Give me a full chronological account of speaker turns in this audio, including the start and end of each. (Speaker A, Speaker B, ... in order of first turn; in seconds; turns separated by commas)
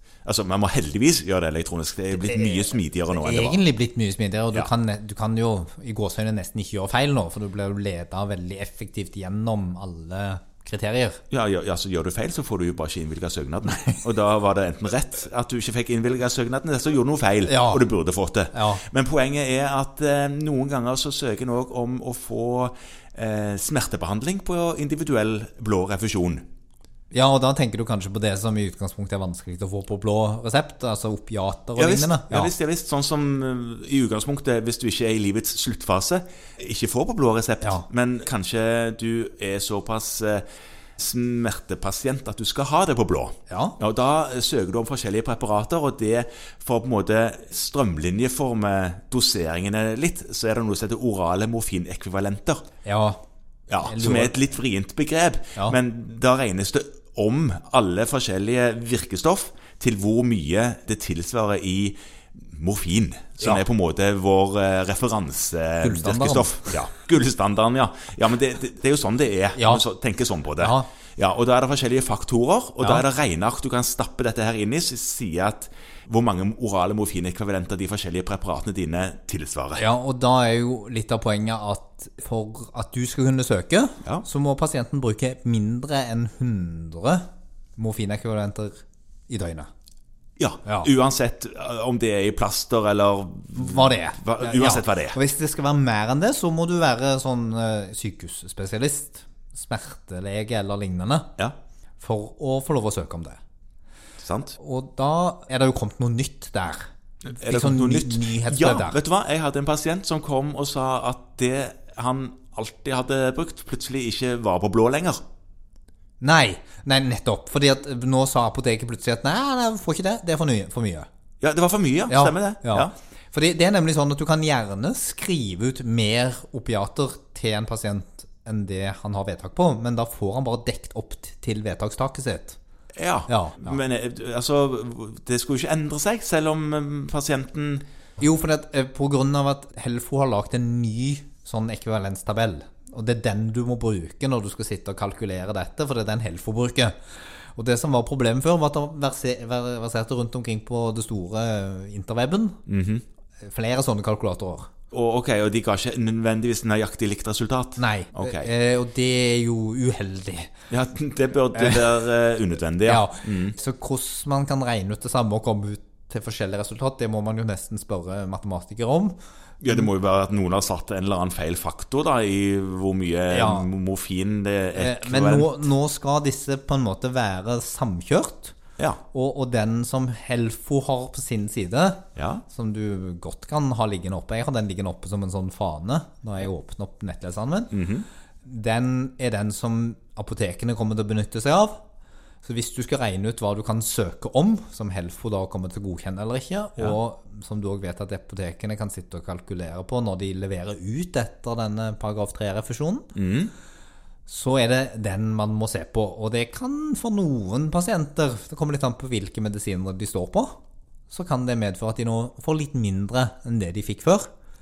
Speaker A: 0.2-3.6, Speaker B: 2.2-11.2, Speaker A: 11.3-26.4, Speaker B: 17.4-17.8, Speaker B: 18.5-18.8, Speaker B: 27.1-32.5, Speaker A: 31.8-40.4, Speaker A: 41.0-52.6, Speaker B: 43.5-43.8, Speaker B: 52.8-53.2, Speaker A: 53.7-79.8, Speaker B: 53.8-54.5, Speaker B: 65.8-66.8, Speaker B: 69.5-69.8, Speaker B: 70.6-70.9, Speaker B: 79.8-87.2, Speaker B: 87.8-89.7, Speaker A: 90.4-95.2, Speaker B: 90.6-90.9, Speaker B: 93.5-101.3, Speaker B: 102.0-103.4, Speaker A: 104.2-104.5, Speaker B: 104.6-109.0, Speaker A: 107.2-115.2, Speaker B: 116.2-121.1, Speaker A: 121.4-122.9, Speaker B: 122.1-132.6, Speaker A: 132.9-137.8, Speaker B: 133.3-133.8, Speaker B: 138.2-152.6, Speaker A: 152.7-153.0, Speaker B: 153.4-154.7, Speaker A: 154.9-158.5, Speaker B: 157.8-160.5, Speaker A: 160.7-163.6, Speaker B: 161.5-162.0, Speaker B: 162.8-169.2, Speaker A: 169.6-175.7, Speaker B: 173.3-173.7, Speaker B: 174.8-178.6, Speaker B: 179.1-187.7, Speaker A: 182.2-182.4, Speaker A: 187.7-188.1, Speaker B: 188.4-191.8, Speaker B: 192.4-203.1, Speaker A: 203.1-203.5, Speaker B: 204.3-214.3